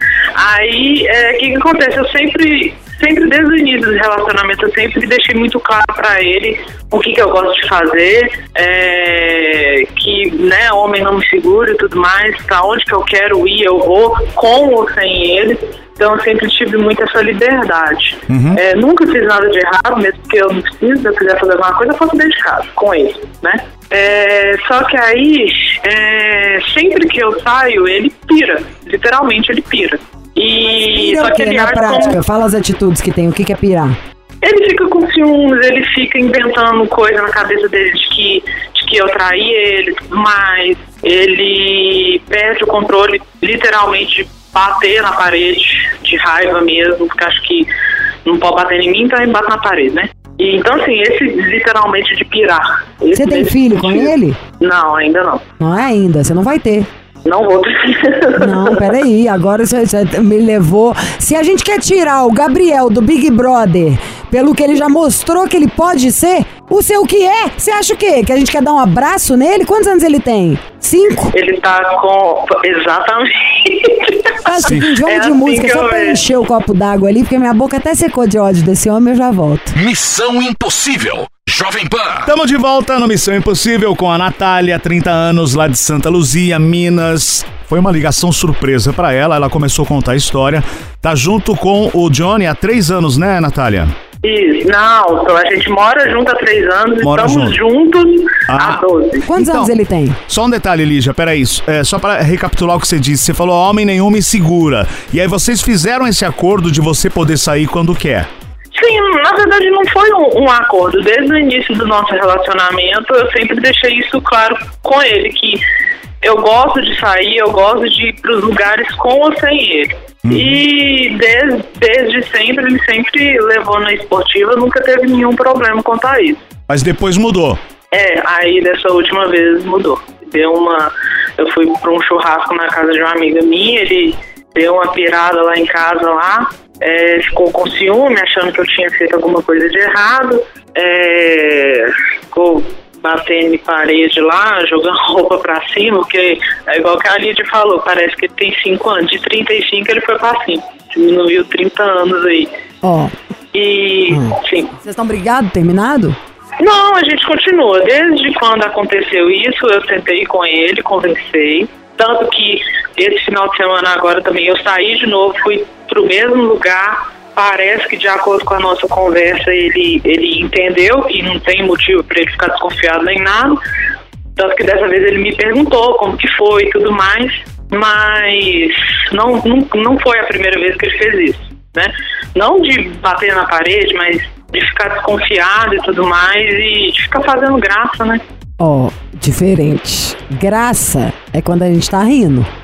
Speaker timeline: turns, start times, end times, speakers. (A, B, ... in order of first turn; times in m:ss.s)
0:00.4-0:32.2 A
0:18.3-0:18.6 B
0:30.8-0:34.0 C
0:34.4-0:47.7 A
0:48.2-0:55.4 A
0:53.1-0:54.4 C
0:55.6-0:56.9 C
0:57.2-0:58.8 A
0:58.4-1:11.3 C
1:11.3-1:14.3 A
1:14.4-1:19.7 C
1:14.6-1:14.9 B
1:15.0-1:16.2 A
1:19.8-1:22.3 D
1:22.2-1:33.9 B
1:34.2-1:39.3 A
1:37.0-1:37.6 B
1:38.5-1:39.7 B
1:39.3-1:40.2 C
1:40.3-1:48.3 B
1:48.7-1:55.6 A
1:56.2-2:06.4 A
2:00.2-2:00.6 B
2:06.7-2:07.6 B
2:07.9-2:32.5 A
2:32.8-2:33.1 C
2:33.5-2:34.7 A
2:34.1-2:36.2 C
2:36.6-2:53.6 A
2:54.4-3:08.2 A
3:08.6-3:12.5 C